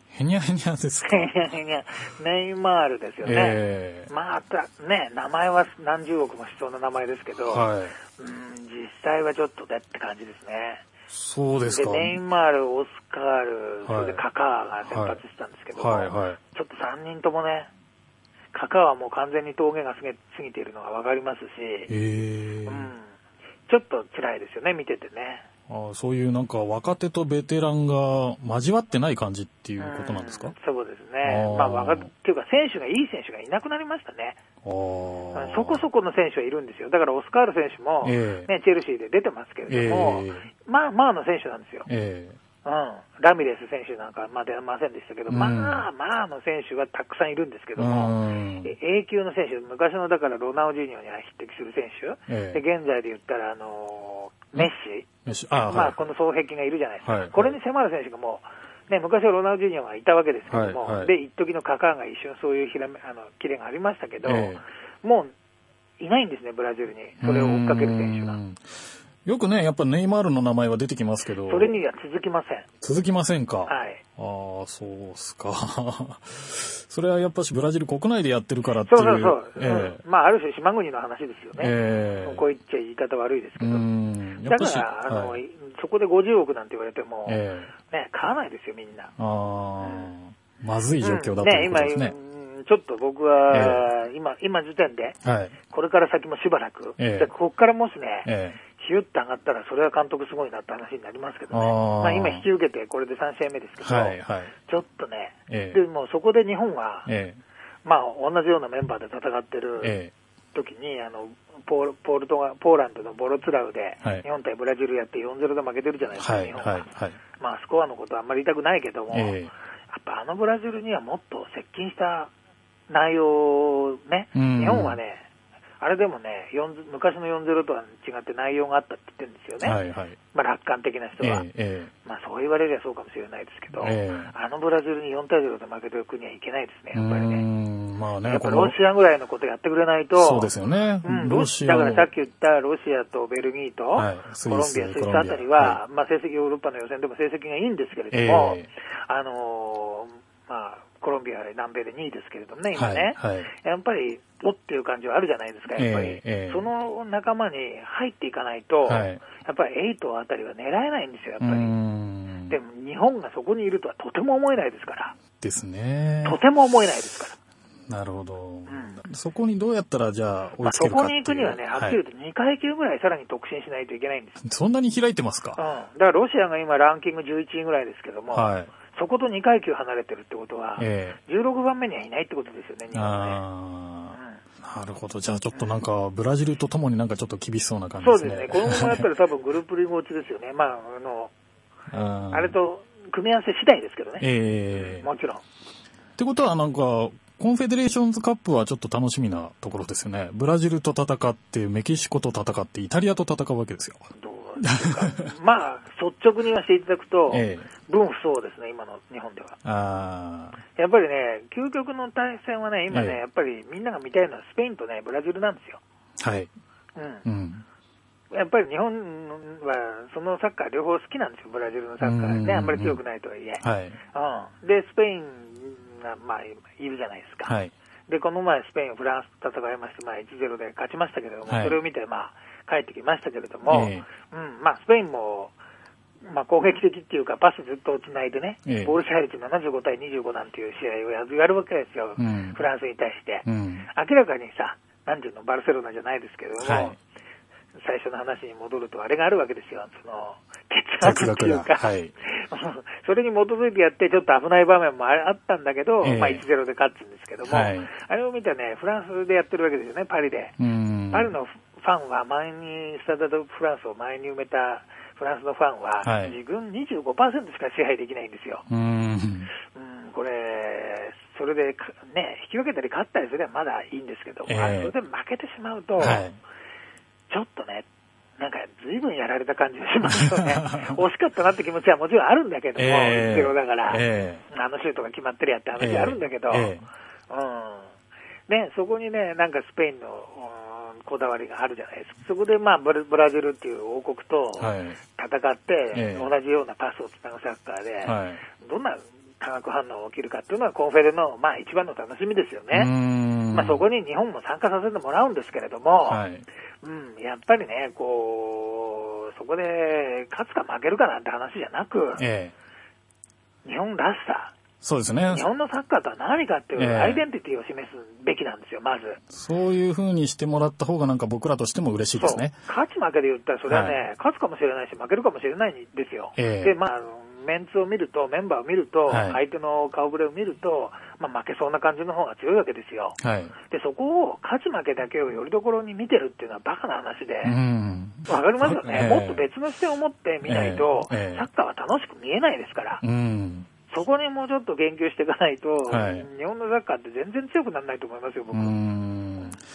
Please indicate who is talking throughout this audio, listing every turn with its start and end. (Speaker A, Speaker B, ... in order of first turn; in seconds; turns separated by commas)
Speaker A: 0.1-1.3, Speaker B: 1.1-10.8, Speaker A: 3.2-4.1, Speaker A: 7.5-8.0, Speaker A: 11.1-12.2, Speaker B: 11.7-17.7, Speaker A: 13.9-14.2, Speaker A: 14.8-15.2, Speaker A: 15.8-16.4, Speaker B: 18.5-21.9, Speaker A: 21.9-22.9, Speaker B: 22.7-23.1, Speaker B: 23.7-25.5, Speaker A: 25.7-30.5, Speaker B: 29.8-34.4, Speaker A: 31.2-32.1, Speaker A: 34.6-35.8, Speaker B: 35.3-41.9, Speaker A: 38.0-38.5, Speaker A: 39.7-40.5, Speaker A: 41.9-42.4, Speaker B: 42.6-55.1, Speaker A: 45.3-45.8, Speaker A: 47.8-48.7, Speaker A: 52.3-52.6, Speaker A: 55.3-56.0, Speaker B: 55.7-65.3, Speaker A: 57.0-57.6, Speaker A: 60.5-61.1, Speaker A: 64.2-64.6, Speaker B: 66.0-68.4, Speaker A: 67.2-68.6, Speaker A: 69.2-71.7, Speaker B: 71.5-72.7, Speaker A: 72.8-80.0, Speaker B: 73.7-74.0, Speaker B: 78.9-83.9, Speaker A: 81.6-82.5, Speaker A: 83.6-85.4, Speaker B: 84.4-89.1, Speaker A: 87.3-87.7, Speaker A: 89.2-92.2, Speaker B: 89.8-90.1, Speaker B: 91.0-95.2, Speaker A: 93.5-93.9, Speaker A: 95.2-95.6, Speaker B: 95.7-107.1, Speaker A: 97.0-97.3, Speaker A: 98.3-98.6, Speaker A: 101.5-102.5, Speaker A: 103.8-104.5, Speaker A: 105.5-105.8, Speaker A: 107.1-107.4, Speaker B: 107.8-109.9, Speaker A: 109.8-110.1, Speaker B: 110.5-116.9, Speaker A: 116.2-117.2, Speaker B: 117.4-119.4, Speaker A: 119.1-119.5, Speaker B: 119.9-122.3, Speaker B: 122.9-125.2, Speaker A: 124.3-125.0, Speaker B: 125.8-129.8, Speaker A: 129.6-130.2, Speaker B: 130.3-131.4, Speaker A: 131.2-131.9, Speaker B: 132.1-137.4, Speaker A: 133.8-134.3, Speaker A: 136.9-138.8, Speaker B: 138.3-140.5, Speaker A: 140.2-142.1, Speaker B: 141.0-161.7, Speaker A: 143.9-145.8, Speaker A: 148.1-148.7, Speaker A: 152.8-153.5, Speaker A: 155.8-156.7, Speaker A: 158.9-159.2, Speaker A: 161.4-162.6, Speaker B: 162.5-165.2, Speaker A: 165.4-166.4, Speaker B: 166.2-167.4, Speaker A: 167.9-172.0, Speaker B: 168.7-169.0, Speaker B: 170.6-174.4, Speaker A: 174.4-175.6, Speaker B: 175.6-183.4, Speaker A: 178.3-178.7, Speaker A: 180.8-181.2, Speaker A: 182.9-189.1, Speaker B: 184.1-184.4, Speaker B: 185.5-185.8, Speaker B: 188.0-191.3, Speaker A: 191.9-192.6, Speaker B: 192.3-194.3, Speaker A: 194.2-195.1, Speaker B: 194.8-195.4, Speaker A: 196.2-204.1, Speaker B: 204.2-209.6, Speaker A: 204.6-205.3, Speaker A: 207.3-207.7, Speaker A: 209.6-210.6, Speaker B: 210.8-215.8, Speaker A: 212.9-213.2, Speaker A: 216.2-216.5, Speaker B: 217.0-217.2, Speaker A: 217.2-217.7, Speaker B: 218.3-227.5, Speaker A: 222.0-223.0, Speaker A: 223.6-224.0, Speaker A: 227.5-227.7, Speaker B: 228.1-235.5, Speaker A: 231.5-231.8, Speaker A: 233.7-234.1, Speaker B: 236.2-247.0, Speaker A: 238.7-239.0, Speaker A: 242.2-242.6, Speaker A: 243.5-243.9, Speaker A: 246.6-247.0, Speaker B: 247.8-260.6, Speaker A: 251.0-252.1, Speaker A: 256.0-256.4, Speaker A: 257.5-257.9, Speaker A: 260.6-261.3, Speaker B: 261.1-268.6, Speaker A: 266.0-266.4, Speaker A: 268.7-269.5, Speaker B: 269.7-276.2, Speaker A: 274.5-274.9, Speaker A: 276.0-276.4, Speaker B: 277.3-277.9, Speaker B: 278.4-286.7, Speaker A: 280.0-281.0, Speaker A: 282.8-284.4, Speaker A: 285.8-286.9, Speaker B: 287.3-287.9, Speaker B: 288.5-302.9, Speaker A: 294.6-295.0, Speaker A: 295.9-296.3, Speaker A: 298.1-298.4, Speaker A: 302.7-303.8, Speaker B: 303.5-306.2, Speaker A: 306.1-306.5, Speaker B: 306.8-312.2, Speaker A: 312.2-312.5, Speaker B: 313.6-314.5, Speaker A: 314.8-315.5, Speaker B: 315.3-319.2, Speaker A: 316.8-317.2, Speaker A: 319.3-322.6, Speaker B: 322.2-337.6, Speaker A: 323.7-324.0, Speaker A: 326.4-326.8, Speaker A: 329.1-329.4, Speaker A: 333.2-333.6, Speaker A: 337.4-339.5, Speaker B: 338.3-343.0, Speaker A: 340.5-341.5, Speaker A: 343.0-343.7, Speaker B: 343.9-348.8, Speaker A: 345.9-346.3, Speaker A: 348.5-349.6